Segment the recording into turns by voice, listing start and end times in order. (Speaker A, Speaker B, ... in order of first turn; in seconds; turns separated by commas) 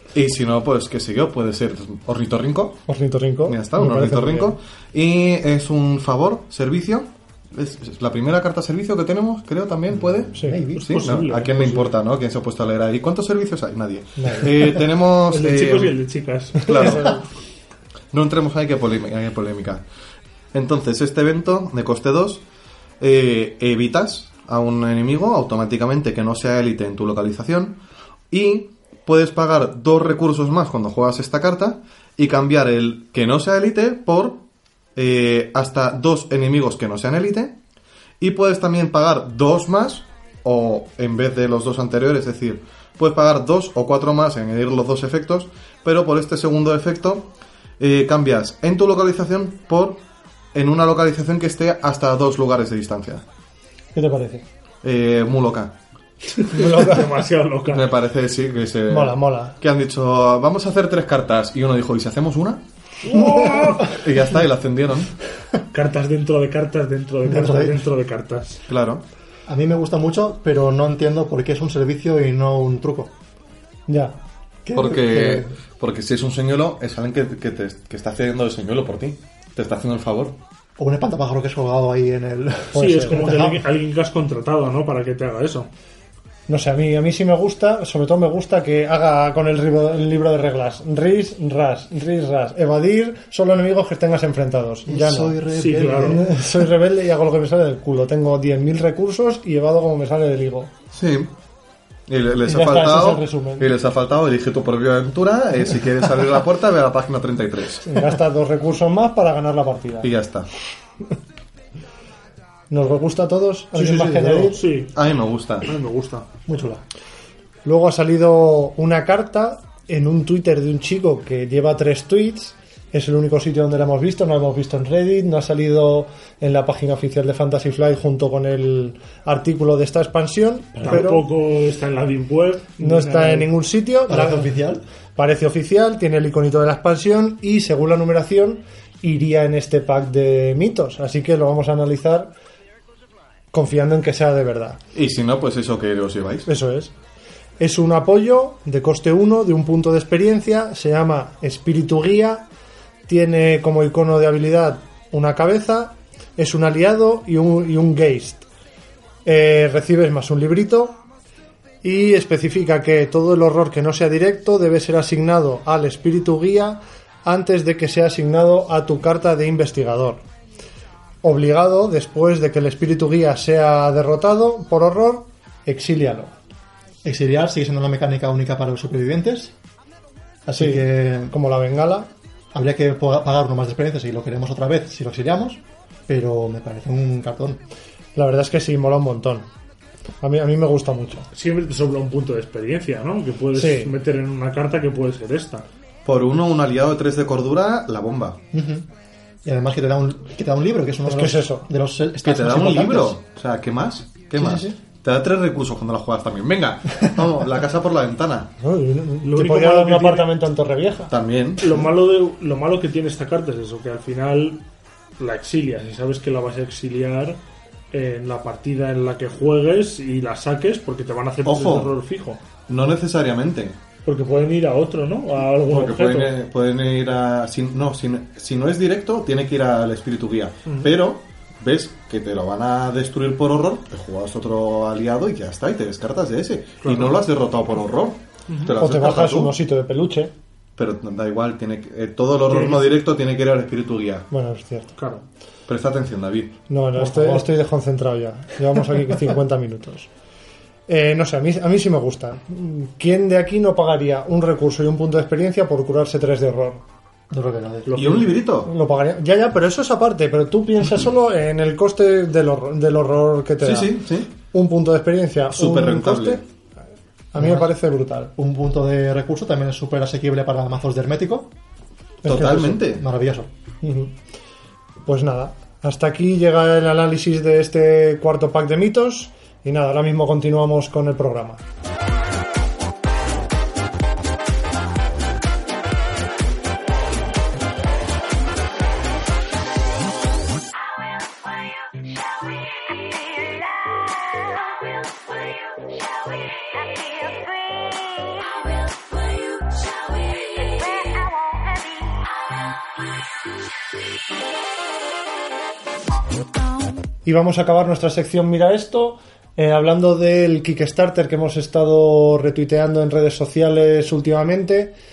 Speaker A: 0.1-2.9, Speaker B: 2.9-4.5, Speaker A: 3.5-15.9, Speaker C: 10.3-10.9, Speaker B: 10.3-10.6, Speaker D: 10.8-12.0, Speaker B: 14.2-14.5, Speaker D: 15.3-17.0, Speaker A: 16.6-17.2, Speaker B: 16.7-17.2, Speaker A: 18.1-19.8, Speaker A: 20.5-22.4, Speaker A: 23.0-27.8, Speaker A: 28.3-34.4, Speaker A: 35.0-37.6, Speaker A: 38.2-47.3, Speaker A: 47.8-50.0, Speaker A: 50.5-53.2, Speaker B: 53.9-54.4, Speaker A: 54.8-55.7, Speaker D: 56.4-57.9, Speaker B: 56.6-57.0, Speaker A: 57.7-62.6, Speaker B: 58.9-59.6, Speaker D: 63.0-64.0, Speaker A: 63.8-65.1, Speaker D: 65.7-68.6, Speaker C: 67.2-67.8, Speaker A: 68.7-69.0, Speaker C: 69.5-73.1, Speaker B: 73.9-74.2, Speaker C: 74.7-75.5, Speaker A: 74.7-80.3, Speaker C: 80.8-83.6, Speaker D: 82.7-85.7, Speaker B: 82.8-83.4, Speaker B: 86.5-95.4, Speaker C: 94.9-96.5, Speaker D: 95.5-96.2, Speaker B: 96.1-100.7, Speaker A: 100.9-101.3, Speaker A: 102.1-107.9, Speaker B: 102.5-103.7, Speaker B: 107.8-110.1, Speaker A: 110.0-110.5, Speaker B: 112.7-114.6, Speaker C: 113.8-114.2, Speaker D: 114.2-115.0, Speaker A: 114.9-115.7, Speaker D: 115.6-116.3, Speaker C: 116.5-116.8, Speaker B: 117.7-131.3, Speaker D: 130.8-133.5, Speaker B: 132.8-134.6, Speaker C: 134.1-134.8, Speaker B: 135.2-142.3, Speaker B: 143.5-144.8, Speaker A: 144.9-146.5, Speaker B: 146.5-146.9, Speaker B: 147.6-152.4, Speaker B: 153.1-158.4, Speaker B: 159.2-161.0, Speaker B: 161.8-170.2, Speaker B: 171.2-176.3, Speaker C: 177.0-179.5, Speaker C: 180.5-181.3, Speaker B: 180.6-182.1, Speaker C: 182.5-187.6, Speaker B: 188.2-189.4, Speaker B: 190.2-191.3, Speaker D: 191.3-195.7, Speaker B: 193.6-193.9, Speaker A: 196.1-198.4, Speaker C: 198.5-198.9, Speaker C: 199.4-203.2, Speaker B: 201.1-201.7, Speaker A: 202.2-208.5, Speaker C: 204.4-204.8, Speaker B: 208.6-211.1, Speaker D: 209.2-210.3, Speaker A: 211.1-211.8, Speaker D: 211.6-214.6, Speaker D: 215.2-217.4, Speaker D: 217.9-222.4, Speaker A: 221.4-221.9, Speaker A: 222.7-223.8, Speaker D: 224.1-226.3, Speaker A: 225.7-239.6, Speaker D: 236.8-237.2, Speaker B: 238.8-240.3, Speaker A: 240.8-244.3, Speaker D: 242.5-243.0, Speaker B: 244.3-244.9, Speaker D: 245.0-245.2, Speaker A: 245.7-246.6, Speaker B: 246.7-250.1, Speaker C: 247.0-247.5, Speaker B: 250.9-256.8, Speaker C: 257.3-257.9, Speaker D: 257.9-258.3, Speaker A: 257.9-258.7, Speaker B: 258.6-264.0, Speaker A: 263.6-264.3, Speaker B: 264.5-266.4, Speaker A: 265.5-266.4, Speaker B: 267.3-268.3, Speaker C: 267.4-267.7, Speaker C: 268.4-271.5, Speaker A: 272.2-273.1, Speaker C: 272.3-273.5, Speaker B: 273.8-274.1, Speaker B: 275.1-281.6, Speaker B: 307.2-314.9